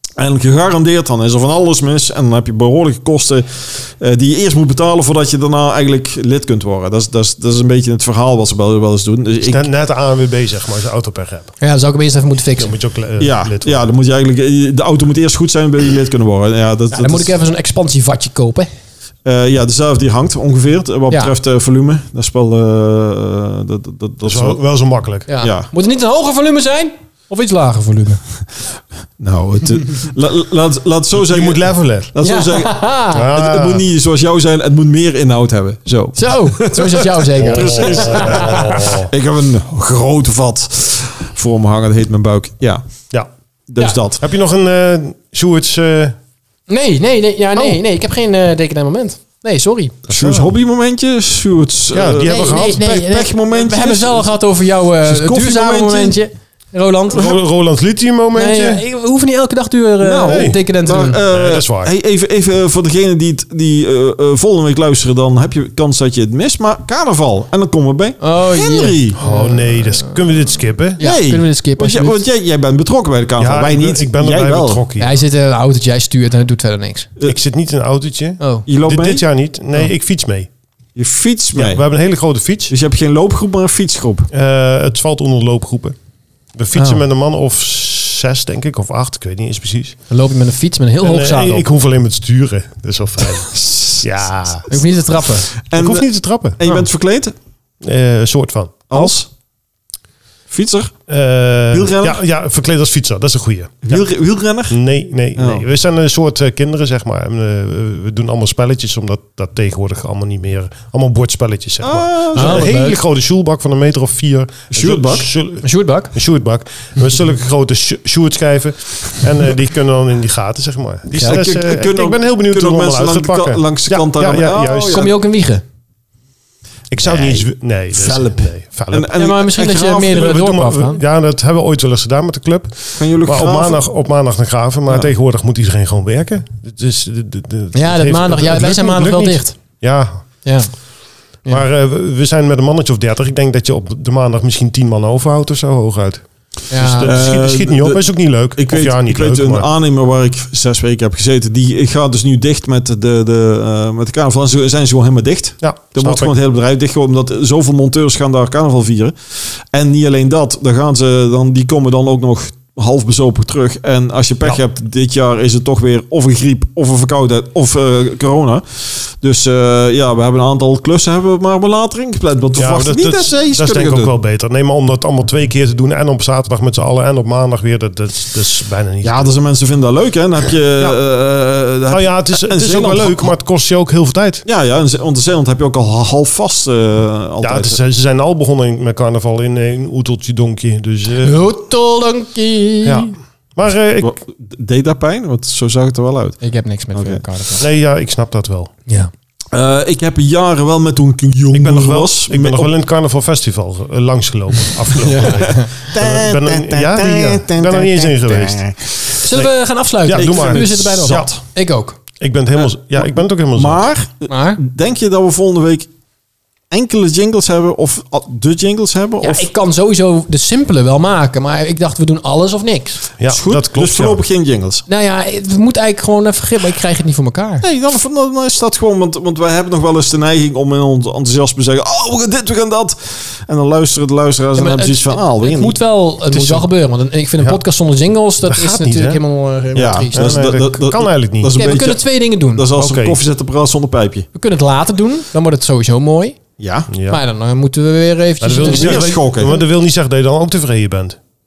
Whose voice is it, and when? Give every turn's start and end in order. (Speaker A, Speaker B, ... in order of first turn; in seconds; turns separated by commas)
Speaker A: 0.2-9.6, Speaker B: 9.4-11.5, Speaker C: 11.6-12.7, Speaker B: 12.6-13.8, Speaker A: 13.2-17.3, Speaker C: 16.9-18.7, Speaker A: 19.2-24.6, Speaker B: 24.2-25.3, Speaker C: 25.3-28.2, Speaker A: 25.4-25.7, Speaker A: 29.2-42.8, Speaker B: 31.1-32.1, Speaker C: 32.2-33.3, Speaker B: 33.1-33.9, Speaker C: 36.1-39.0, Speaker B: 37.4-39.1, Speaker A: 43.7-44.2, Speaker B: 44.2-46.1, Speaker C: 46.7-50.0, Speaker B: 50.1-50.5, Speaker A: 50.1-54.3, Speaker B: 51.9-52.8, Speaker C: 51.9-57.4, Speaker A: 55.0-56.2, Speaker B: 57.1-58.8, Speaker C: 58.3-61.2, Speaker A: 60.0-69.2, Speaker B: 60.2-60.6, Speaker B: 61.3-61.9, Speaker C: 68.2-70.2, Speaker B: 69.2-71.0, Speaker C: 71.0-72.2, Speaker A: 71.0-74.8, Speaker B: 73.4-75.2, Speaker C: 75.0-77.1, Speaker B: 77.2-80.5, Speaker C: 78.4-78.6, Speaker A: 78.7-79.2, Speaker A: 81.0-81.8, Speaker B: 81.5-82.7, Speaker A: 82.7-84.3, Speaker B: 84.3-86.0, Speaker B: 86.5-90.0, Speaker C: 90.1-91.6, Speaker B: 91.0-94.8, Speaker C: 94.7-95.5, Speaker A: 95.7-96.1, Speaker B: 95.7-96.8, Speaker A: 96.6-97.3, Speaker B: 97.8-99.1, Speaker A: 98.9-99.3, Speaker A: 100.5-100.9, Speaker B: 101.1-104.0, Speaker A: 101.7-102.2, Speaker A: 103.8-104.8, Speaker B: 104.7-125.1, Speaker A: 105.3-105.6, Speaker A: 111.8-112.7, Speaker C: 112.3-113.0, Speaker A: 114.7-115.3, Speaker C: 115.6-116.1, Speaker C: 121.1-121.4, Speaker A: 121.2-125.1, Speaker C: 124.9-125.6, Speaker B: 126.9-129.1, Speaker A: 127.0-130.6, Speaker C: 129.1-131.0, Speaker B: 130.1-140.2, Speaker A: 132.9-133.8, Speaker C: 137.7-139.6, Speaker C: 140.4-140.7, Speaker B: 141.5-149.7, Speaker C: 146.7-147.1, Speaker A: 147.0-148.0, Speaker A: 148.6-159.1, Speaker B: 155.6-156.3, Speaker A: 159.7-174.1, Speaker B: 172.5-179.3, Speaker A: 179.0-183.3, Speaker B: 181.9-184.4, Speaker A: 184.4-187.8, Speaker B: 187.4-191.4, Speaker C: 191.2-193.2, Speaker B: 192.8-194.1, Speaker A: 194.0-196.4, Speaker C: 196.4-197.7, Speaker A: 196.9-197.2, Speaker B: 197.6-198.7, Speaker A: 199.5-202.7, Speaker B: 201.5-208.6, Speaker A: 204.9-209.2, Speaker C: 205.4-205.7, Speaker C: 209.2-212.0, Speaker B: 210.0-211.3, Speaker A: 210.1-211.4, Speaker B: 212.2-213.8, Speaker A: 212.6-215.9, Speaker C: 214.3-214.6, Speaker A: 216.7-219.5, Speaker C: 219.2-223.0, Speaker B: 223.2-224.2, Speaker A: 223.3-224.8, Speaker C: 224.9-227.6, Speaker A: 227.6-235.8, Speaker C: 234.6-240.4, Speaker A: 236.3-236.7, Speaker B: 238.4-239.2, Speaker A: 239.8-244.3, Speaker B: 240.1-241.6, Speaker C: 241.6-242.6, Speaker B: 242.8-243.2, Speaker C: 244.3-246.4, Speaker A: 246.6-246.9, Speaker B: 246.9-247.2, Speaker C: 247.0-249.2, Speaker B: 248.4-251.2, Speaker A: 248.6-249.6